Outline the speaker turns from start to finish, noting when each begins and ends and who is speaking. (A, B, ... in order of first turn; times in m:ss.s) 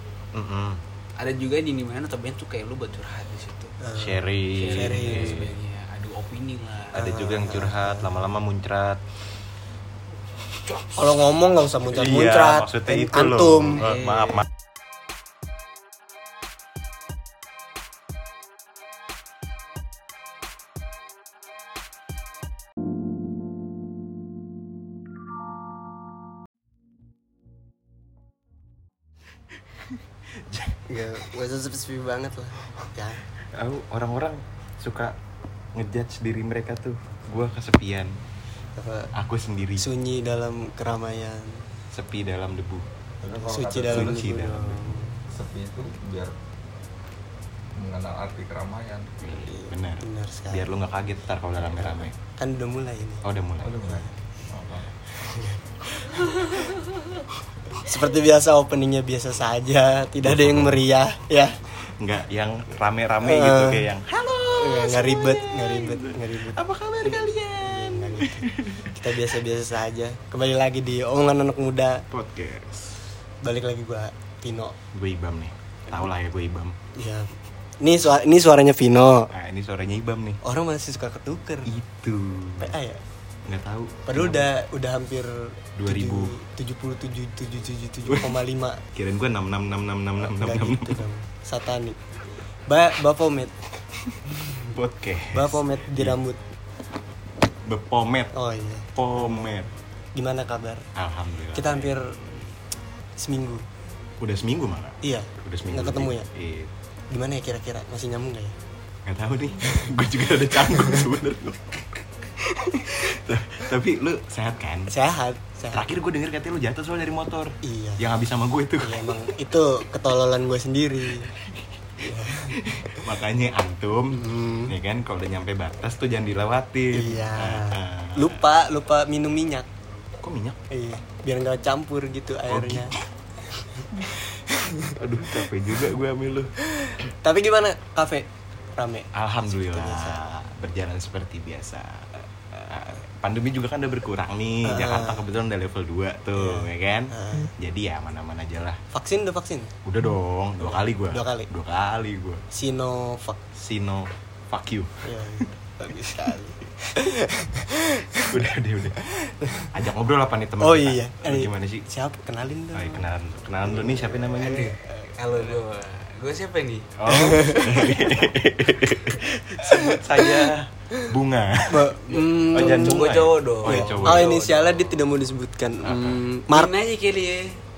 0:00.3-0:00.8 A
0:01.2-0:03.8 B
0:03.8-0:05.4 C
0:04.0-0:05.5 A
0:04.5-0:07.1 B
0:06.9-0:09.0 A
0:07.0-0:08.1 C
0:10.9-0:13.8 C
0:11.9-0:14.4 A
0:13.8-0:14.4 B
0:30.5-0:30.8 A
0:30.9-0:33.2 C
0:33.6-0:35.1 A
0:35.7-0:38.1 A
0:38.8-0:39.1 C
0:39.1-0:39.8 A
0:39.8-0:41.7 C
0:41.9-0:42.8 A
0:43.2-0:44.3 D
0:43.3-0:45.2 C
0:43.9-0:45.0 A
0:45.3-0:46.3 D
0:47.8-0:49.2 D
0:49.2-0:52.1 A
0:49.4-0:50.7 C
0:51.8-0:53.2 C
0:53.2-0:53.9 A
0:53.6-0:55.0 D
0:53.8-0:54.1 C
0:55.2-0:56.8 C
0:57.8-1:01.6 C
1:00.2-1:00.8 A
1:02.0-1:08.9 A
1:03.2-1:03.9 C
1:04.6-1:12.0 C
1:12.1-1:12.9 A
1:13.4-1:14.8 C
1:14.9-1:16.7 A
1:16.9-1:17.3 C
1:17.8-1:19.3 C
1:19.3-1:20.4 A
1:20.4-1:21.7 C
1:21.6-1:22.7 A
1:22.6-1:23.0 C
1:23.4-1:24.5 A
1:24.1-1:28.8 C
1:25.8-1:26.3 A
1:28.1-1:28.4 A
1:28.9-1:31.0 A
1:30.2-1:32.0 C
1:32.7-1:33.6 C
1:34.6-1:36.2 A
1:35.3-1:36.4 C
1:37.6-1:38.3 A
1:38.3-1:40.8 C
1:39.0-1:39.7 A
1:41.0-1:42.0 A
1:41.5-1:42.2 C
1:43.2-1:43.6 C
1:44.2-1:46.7 A
1:45.0-1:46.3 C
1:47.1-1:48.5 C
1:49.0-1:55.0 A
1:50.7-1:51.1 C
1:54.9-1:55.9 C
1:55.7-1:59.2 A
1:57.6-1:58.0 C
1:58.8-2:01.3 C
2:02.0-2:03.0 C
2:02.4-2:08.4 A
2:04.1-2:04.8 C
2:06.9-2:09.7 C
2:10.2-2:10.6 A
2:10.7-2:12.9 C
2:12.5-2:13.0 A
2:13.5-2:15.5 C
2:15.0-2:16.5 A
2:16.6-2:20.2 C
2:19.1-2:28.8 A
2:24.6-2:25.2 C
2:26.4-2:27.5 C
2:28.9-2:29.7 C
2:29.8-2:32.4 A
2:30.6-2:31.5 C
2:32.5-2:33.4 C
2:33.6-2:35.5 A
2:35.0-2:38.4 C
2:38.2-2:39.0 A
2:39.0-2:39.7 C
2:39.7-2:41.8 A
2:40.6-2:43.1 C
2:42.7-2:44.7 A
2:43.7-2:45.1 C
2:44.4-2:46.9 B
2:47.0-2:54.4 A
2:47.1-2:48.2 C
2:49.6-2:50.5 C
2:51.7-2:53.1 C
2:52.0-2:54.8 B
2:53.6-2:56.7 C
2:55.8-2:56.2 A
2:56.5-2:57.6 B